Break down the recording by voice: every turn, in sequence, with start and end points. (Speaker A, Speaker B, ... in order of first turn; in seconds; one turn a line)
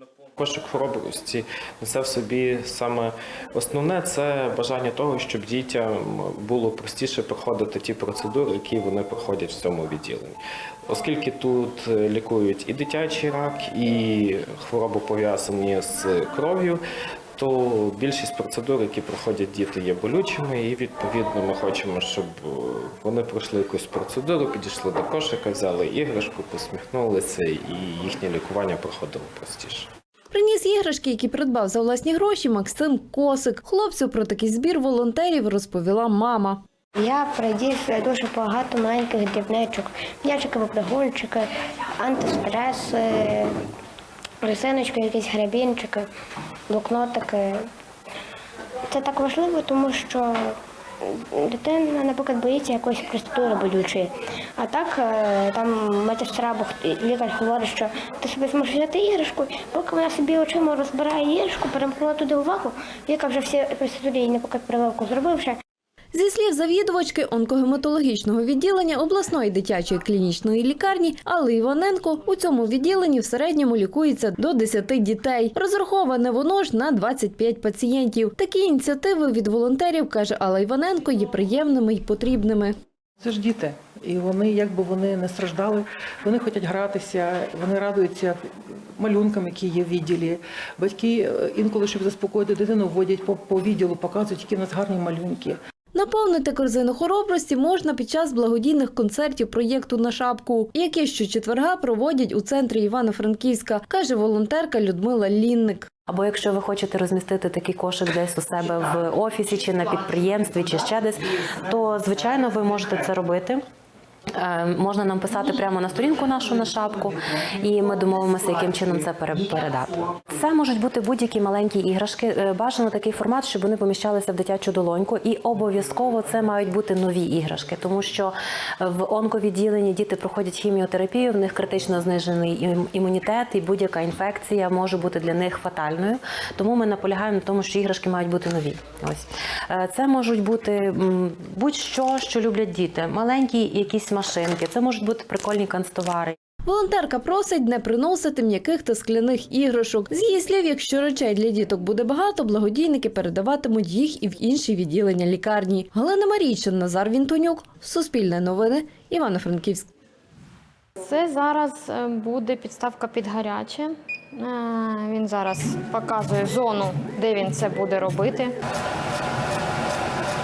Speaker A: 0.4-16.8
Speaker A: 17.4-29.9
Speaker B: 30.3-36.6
Speaker C: 37.0-41.5
Speaker C: 42.0-43.5
Speaker C: 44.4-46.1
Speaker C: 46.7-47.6
Speaker C: 48.9-50.6
Speaker C: 51.2-65.6
Speaker B: 66.1-82.8
Speaker D: 83.2-88.4
Speaker D: 89.0-95.6
Speaker B: 95.9-105.9
Speaker E: 106.1-113.6
Speaker E: 114.3-146.4
Speaker B: 146.7-159.9
Speaker F: 161.0-168.6